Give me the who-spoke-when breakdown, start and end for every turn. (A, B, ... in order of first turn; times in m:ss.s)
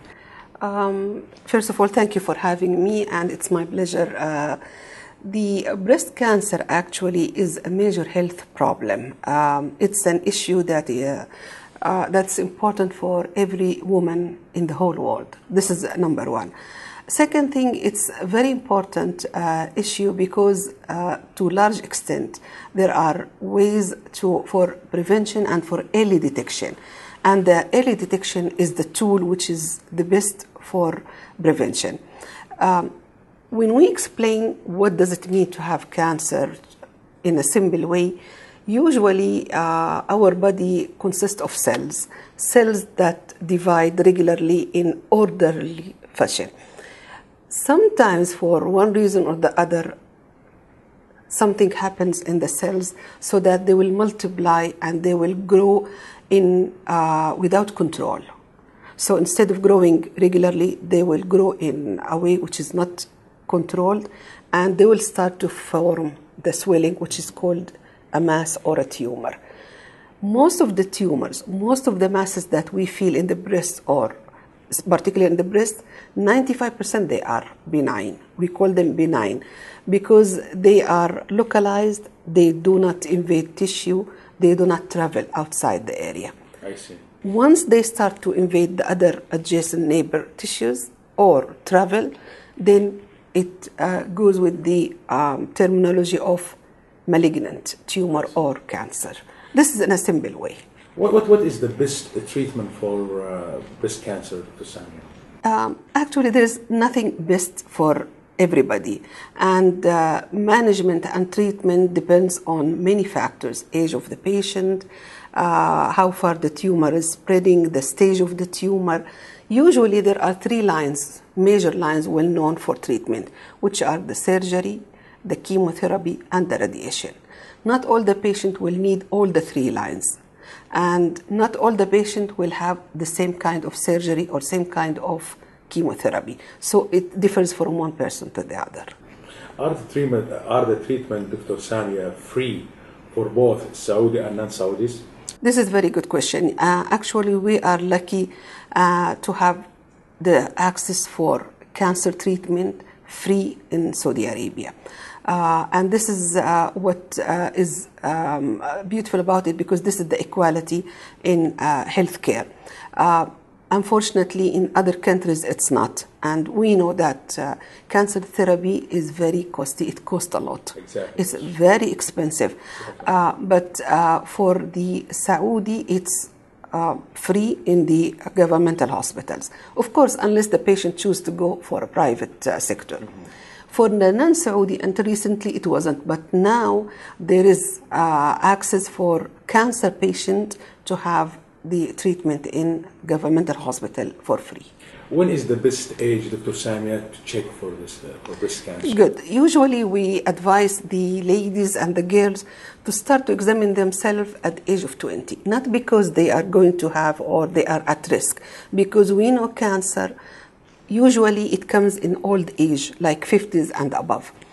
0:00.6-0:04.6 A
0:05.2-0:11.3 A
0:11.8-0:16.5 A
0:17.1-0:32.0 A
0:32.6-0:32.9 A
0:33.5-0:36.6 A
0:37.2-0:38.2 A
0:38.7-0:46.5 A
0:47.5-0:50.0 A
0:51.3-0:58.2 A
0:59.0-1:09.4 A
1:10.2-1:14.2 A
1:14.7-1:26.3 A
1:26.6-1:27.0 B
1:27.2-1:40.6 A
1:41.0-1:45.1 B
1:45.4-2:10.2 A
2:10.7-2:18.9 A
2:19.6-2:25.0 B
2:25.4-2:29.6 A
2:30.2-3:03.1 A
2:50.8-2:51.4 B
3:03.7-3:14.7 A
3:15.1-3:19.0 B
3:18.8-3:30.1 A
3:30.9-3:34.3 A